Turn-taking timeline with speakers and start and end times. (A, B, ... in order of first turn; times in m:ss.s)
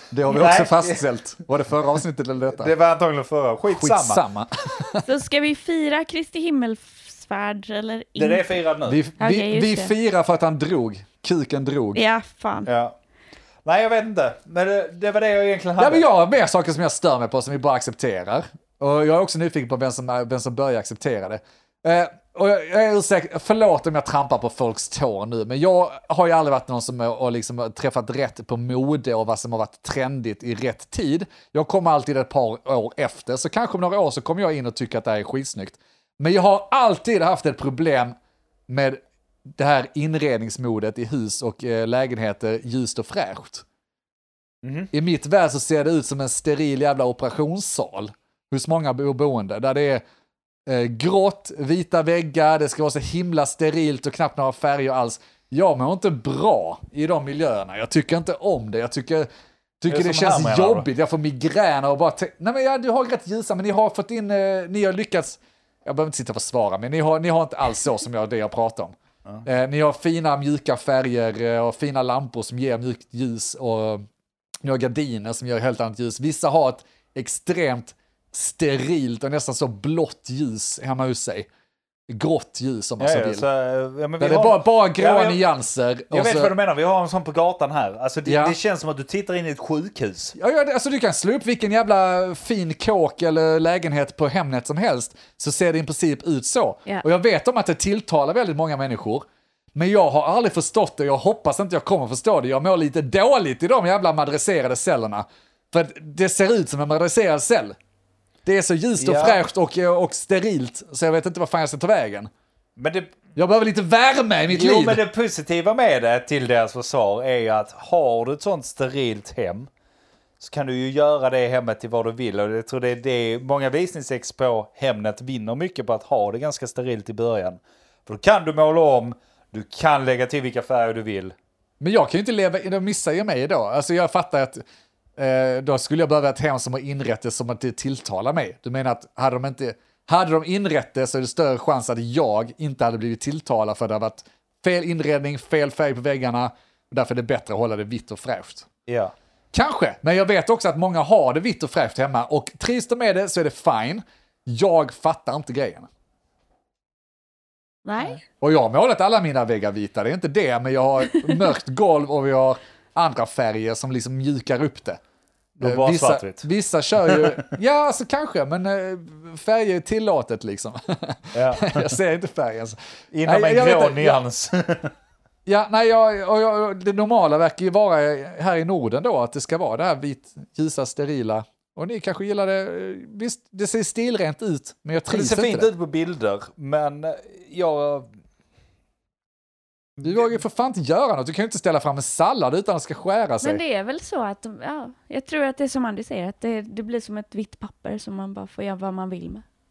0:00.1-0:02.7 A
0:00.3-0:01.0 B
0:02.6-0:04.2 B
0:03.7-0:05.1 A
0:05.0-0:08.5 C
0:08.2-0:09.0 B
0:08.9-0:12.0 A
0:09.2-0:09.9 C
0:12.0-0:12.7 C
0:12.6-0:13.0 B
0:13.6-0:16.0 B
0:15.8-0:38.2 A
0:38.7-0:43.6 A
0:44.6-0:44.9 B
0:44.9-0:50.0 A
0:50.7-0:59.3 A
0:59.8-1:14.1 A
0:59.9-1:00.9 B
1:14.6-1:21.5 A
1:22.1-1:23.4 A
1:23.0-1:25.4 B
1:24.2-1:26.5 A
1:26.1-1:30.3 B
1:28.3-1:28.6 A
1:30.4-1:47.8 A
1:48.4-1:52.3 A
1:49.0-1:49.4 B
1:52.8-1:53.1 B
1:53.4-1:55.0 A
1:54.5-1:59.7 B
2:00.4-2:11.4 B
2:11.8-2:14.6 A
2:15.2-2:28.7 A
2:28.9-2:29.1 B
2:29.5-2:35.9 A
2:37.8-2:38.2 C
2:38.4-2:45.0 A
2:45.6-2:46.5 B
2:45.6-2:54.2 A
2:47.1-2:47.4 B
2:51.3-2:52.0 B
2:53.1-2:54.9 B
2:55.5-3:05.7 A
3:05.1-3:08.1 B
3:10.0-3:10.3 B
3:10.0-3:13.6 A
3:13.4-3:19.4 C